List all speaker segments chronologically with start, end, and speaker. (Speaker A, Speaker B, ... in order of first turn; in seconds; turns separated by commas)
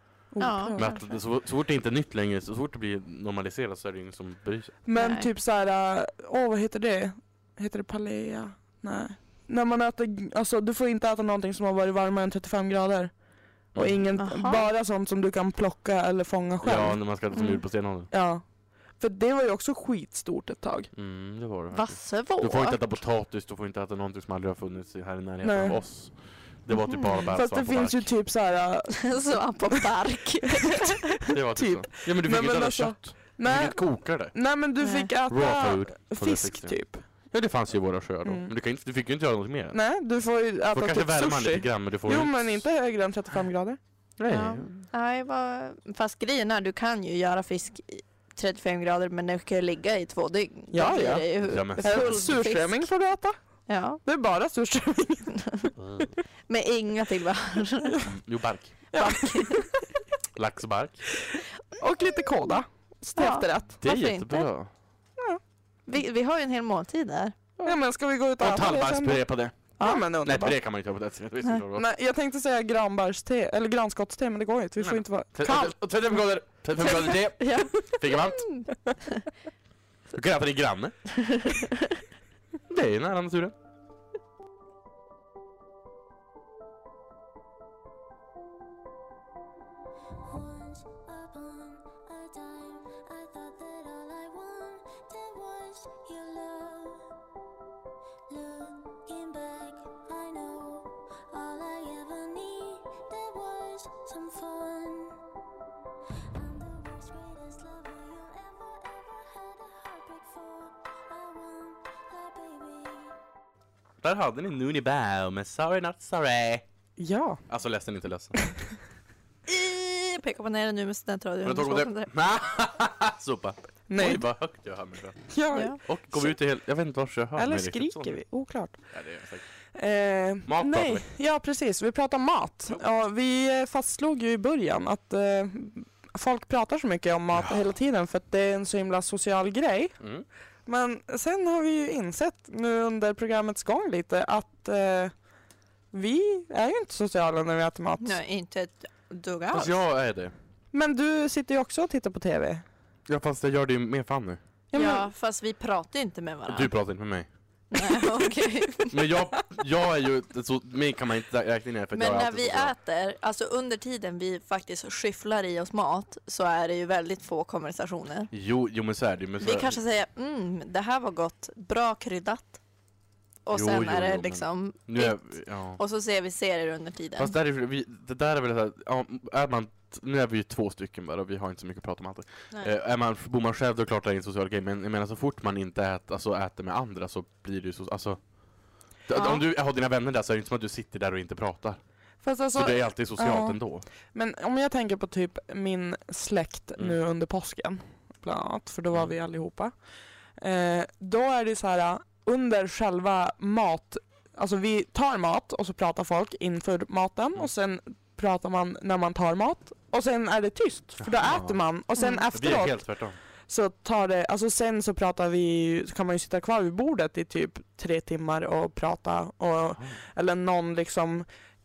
Speaker A: 0.3-1.0, Speaker B: 0.4-1.2, Speaker C: 0.8-4.8, Speaker A: 4.8-13.1, Speaker B: 5.0-5.3, Speaker C: 13.7-14.1, Speaker A: 13.8-17.0, Speaker B: 14.2-14.7, Speaker C: 16.6-18.1, Speaker B: 17.3-17.6, Speaker A: 18.1-18.4, Speaker A: 19.0-20.9, Speaker C: 20.9-28.1, Speaker B: 21.7-22.8, Speaker A: 25.4-25.8, Speaker B: 26.7-27.3, Speaker A: 27.3-29.9, Speaker B: 29.0-31.2, Speaker C: 31.3-34.4, Speaker A: 31.6-37.0, Speaker B: 34.8-35.1, Speaker C: 35.3-39.8, Speaker A: 38.2-38.5, Speaker A: 39.7-43.8, Speaker C: 40.7-42.7, Speaker C: 44.2-44.8, Speaker B: 44.3-52.9, Speaker A: 50.7-53.4, Speaker C: 51.4-52.4, Speaker B: 53.7-54.0, Speaker A: 54.0-56.0, Speaker C: 55.8-56.1, Speaker B: 56.5-58.1, Speaker C: 58.0-58.9, Speaker A: 58.9-59.8, Speaker B: 58.9-59.7, Speaker C: 60.4-61.1, Speaker A: 61.3-63.8, Speaker B: 63.2-64.5, Speaker C: 63.8-64.7, Speaker B: 65.9-67.4, Speaker A: 67.6-69.2, Speaker C: 68.4-69.6, Speaker A: 69.8-70.6, Speaker C: 70.2-71.9, Speaker A: 71.7-75.8, Speaker C: 74.8-78.5, Speaker B: 76.8-79.3, Speaker C: 80.1-81.0, Speaker B: 81.2-81.7, Speaker C: 82.7-83.5, Speaker D: 90.2-97.1, Speaker D: 98.3-105.2, Speaker D: 106.3-113.2, Speaker C: 114.0-116.6, Speaker A: 117.0-117.4, Speaker C: 117.5-118.5, Speaker B: 119.5-122.1, Speaker C: 121.4-128.2, Speaker A: 123.9-124.2, Speaker A: 125.3-126.3, Speaker B: 125.5-125.8, Speaker A: 127.4-128.8, Speaker C: 128.9-129.4, Speaker A: 129.7-140.0, Speaker C: 130.5-131.0, Speaker C: 137.3-137.6, Speaker A: 140.7-145.1, Speaker A: 145.9-148.2, Speaker B: 148.0-149.8, Speaker C: 149.5-150.3, Speaker A: 150.7-152.6, Speaker C: 153.1-154.4, Speaker A: 154.7-155.1, Speaker B: 154.7-156.7, Speaker C: 156.5-157.3, Speaker B: 157.7-158.9, Speaker C: 158.9-162.7, Speaker B: 161.9-168.3, Speaker C: 168.3-169.8, Speaker B: 169.4-172.6, Speaker B: 173.5-177.3, Speaker C: 173.5-175.8, Speaker C: 177.2-188.2, Speaker C: 189.1-191.8, Speaker B: 189.1-189.4, Speaker A: 192.2-193.6, Speaker C: 192.5-193.9, Speaker A: 194.1-199.7, Speaker A: 200.4-212.8, Speaker C: 211.0-211.6, Speaker B: 212.0-212.2, Speaker C: 212.3-213.2, Speaker A: 213.5-221.3